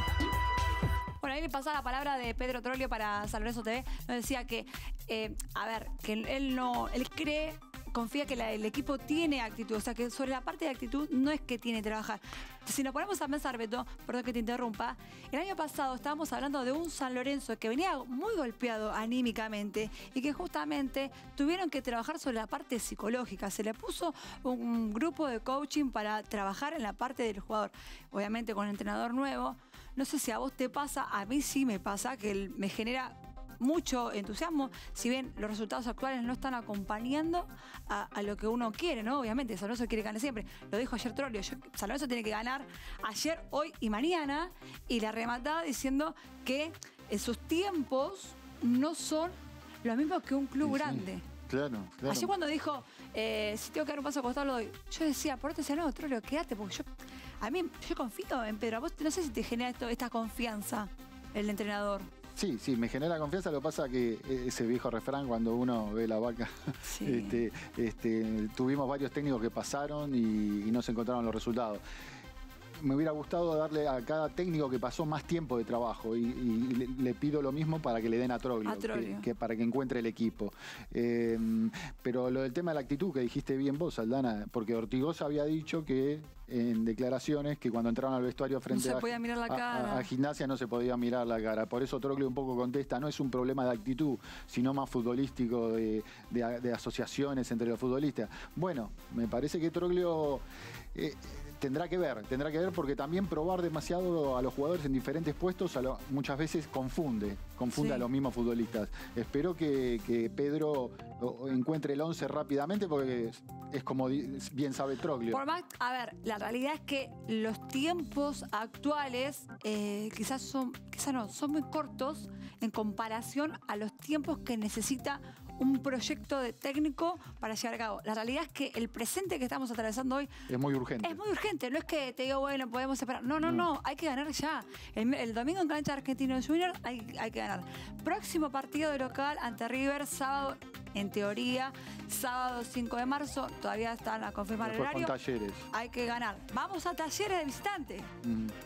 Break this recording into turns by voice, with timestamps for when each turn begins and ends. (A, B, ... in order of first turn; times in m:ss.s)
0:01.2-0:51.2 A
0:50.6-0:52.3 B
0:52.1-0:56.8 A
0:57.4-1:02.1 A
1:02.3-1:11.8 B
1:06.8-1:07.4 A
1:12.8-1:55.4 B
1:18.6-1:19.3 A
1:28.7-1:30.1 A
1:47.7-1:48.1 A
1:55.3-2:10.3 A
2:10.5-2:11.2 B
2:11.0-2:25.1 A
2:13.4-2:13.7 B
2:24.6-2:25.7 B
2:25.7-2:28.1 A
2:28.2-2:28.5 B